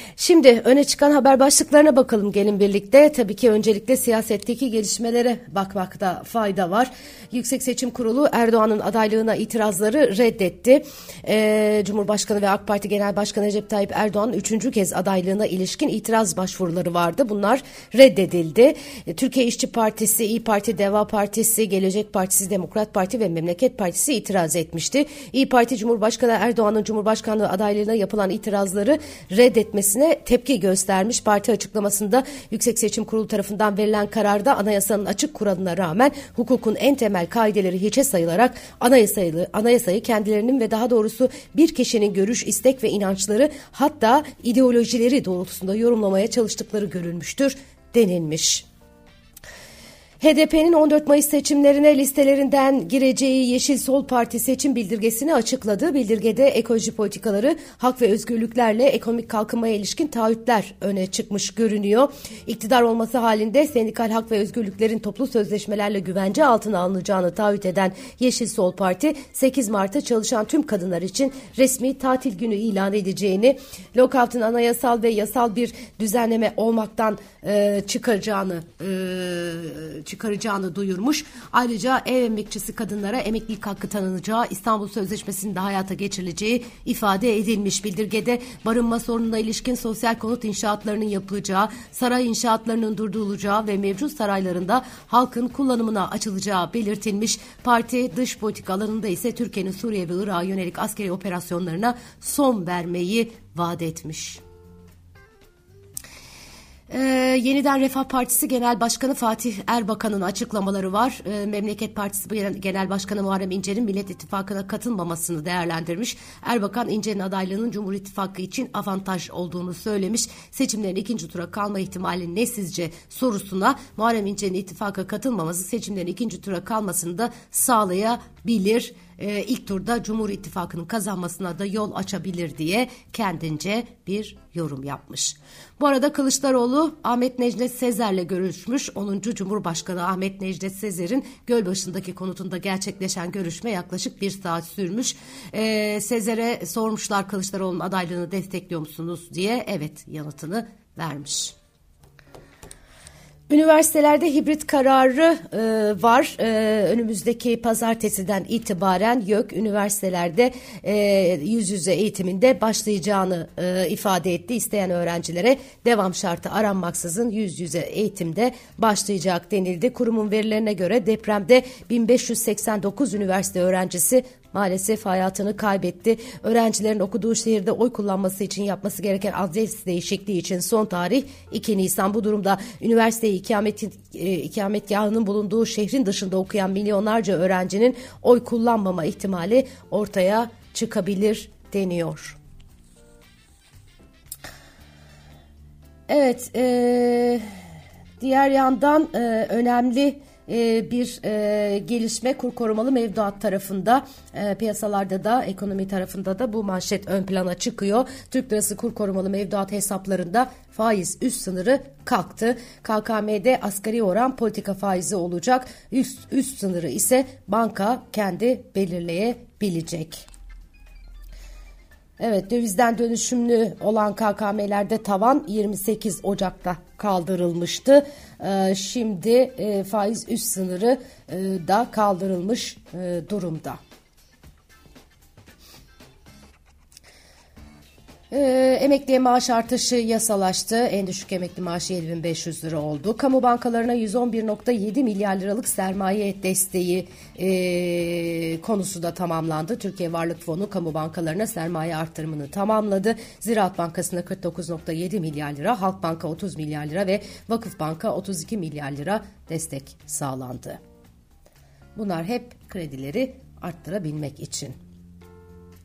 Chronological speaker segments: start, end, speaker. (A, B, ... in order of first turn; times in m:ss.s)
0:00.2-0:48.7 A
0:50.2-1:44.4 A
1:46.9-2:31.6 A
2:33.5-3:12.4 A
3:16.1-3:17.4 A
3:18.2-3:40.3 A
3:42.2-3:53.8 A
3:58.3-4:20.8 A
4:22.0-4:24.8 A